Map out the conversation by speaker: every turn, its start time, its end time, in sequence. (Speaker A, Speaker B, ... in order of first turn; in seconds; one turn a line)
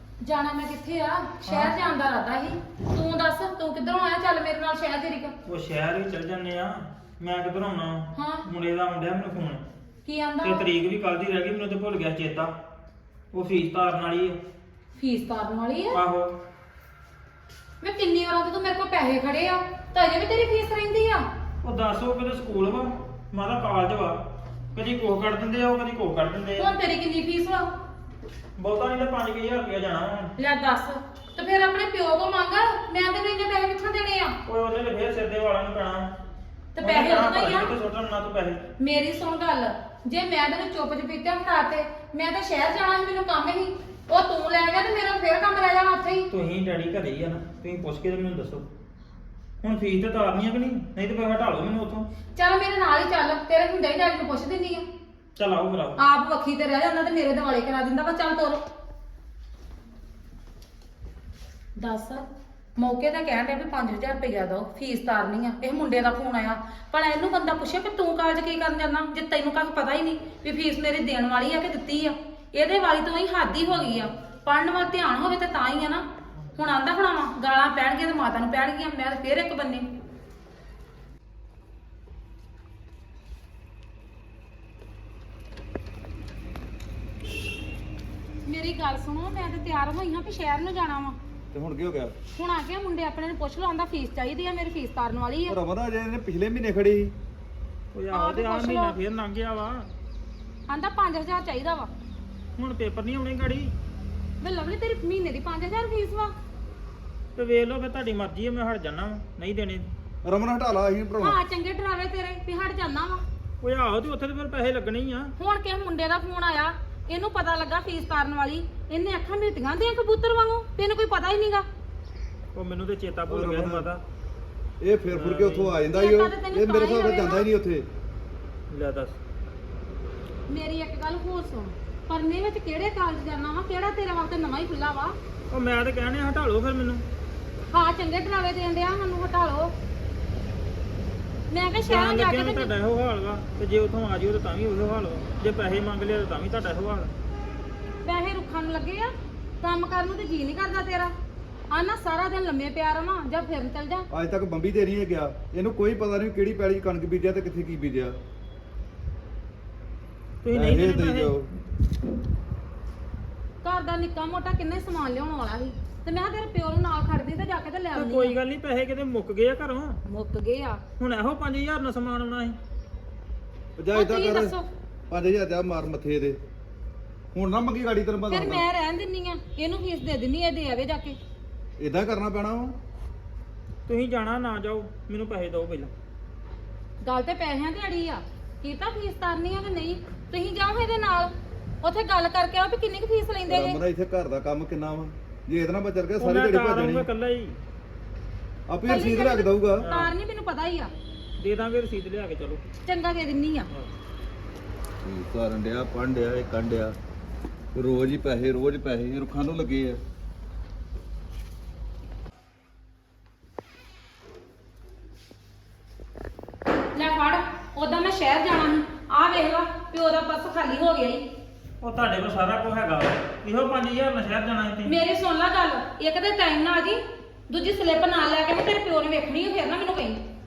Speaker A: 0.2-5.3
Speaker B: 1.4-1.7
Speaker B: 5.4-9.6
Speaker A: 8.1-8.5
Speaker A: 10.0-10.7
Speaker B: 10.4-12.5
Speaker B: 13.3-14.4
Speaker A: 15.0-16.0
Speaker B: 15.9-16.3
Speaker A: 17.8-21.2
Speaker B: 21.6-24.2
Speaker B: 24.7-26.7
Speaker A: 26.6-27.7
Speaker B: 28.6-30.3
Speaker A: 30.4-34.4
Speaker B: 34.4-36.1
Speaker A: 36.7-37.7
Speaker B: 36.8-38.6
Speaker A: 38.8-46.3
Speaker B: 46.3-48.7
Speaker B: 49.6-52.0
Speaker A: 52.4-54.8
Speaker B: 55.4-56.0
Speaker A: 56.0-58.6
Speaker A: 61.8-62.2
Speaker A: 62.8-76.0
Speaker A: 76.5-79.8
Speaker A: 88.5-91.2
Speaker C: 91.5-92.2
Speaker A: 92.3-95.6
Speaker C: 95.5-97.1
Speaker B: 97.9-99.9
Speaker A: 98.1-99.0
Speaker A: 100.7-101.9
Speaker B: 102.6-103.7
Speaker A: 104.4-106.3
Speaker B: 107.3-109.8
Speaker C: 110.2-111.4
Speaker A: 111.2-113.2
Speaker B: 113.6-115.3
Speaker A: 115.4-121.7
Speaker B: 122.5-124.0
Speaker C: 123.3-123.9
Speaker C: 124.8-127.9
Speaker B: 125.1-125.8
Speaker A: 125.9-127.5
Speaker B: 128.7-129.2
Speaker A: 130.5-135.2
Speaker B: 135.5-137.0
Speaker A: 137.7-139.7
Speaker A: 141.5-142.7
Speaker B: 141.8-147.1
Speaker A: 148.0-151.1
Speaker A: 151.7-154.0
Speaker C: 154.1-158.2
Speaker B: 160.4-161.3
Speaker C: 160.5-161.5
Speaker A: 163.6-168.4
Speaker B: 167.9-170.0
Speaker A: 170.1-170.8
Speaker B: 171.0-172.6
Speaker C: 173.8-174.6
Speaker A: 173.9-174.7
Speaker C: 175.1-176.4
Speaker C: 177.3-178.7
Speaker A: 178.3-181.2
Speaker C: 181.8-182.8
Speaker B: 183.9-185.9
Speaker A: 187.0-191.3
Speaker A: 191.8-193.8
Speaker C: 193.5-197.1
Speaker B: 196.2-197.6
Speaker C: 198.7-199.9
Speaker A: 198.8-200.9
Speaker B: 199.8-200.1
Speaker B: 201.4-202.7
Speaker A: 202.8-203.7
Speaker C: 205.0-207.0
Speaker C: 207.7-210.0
Speaker A: 216.9-221.2
Speaker B: 221.8-224.9
Speaker A: 224.8-230.2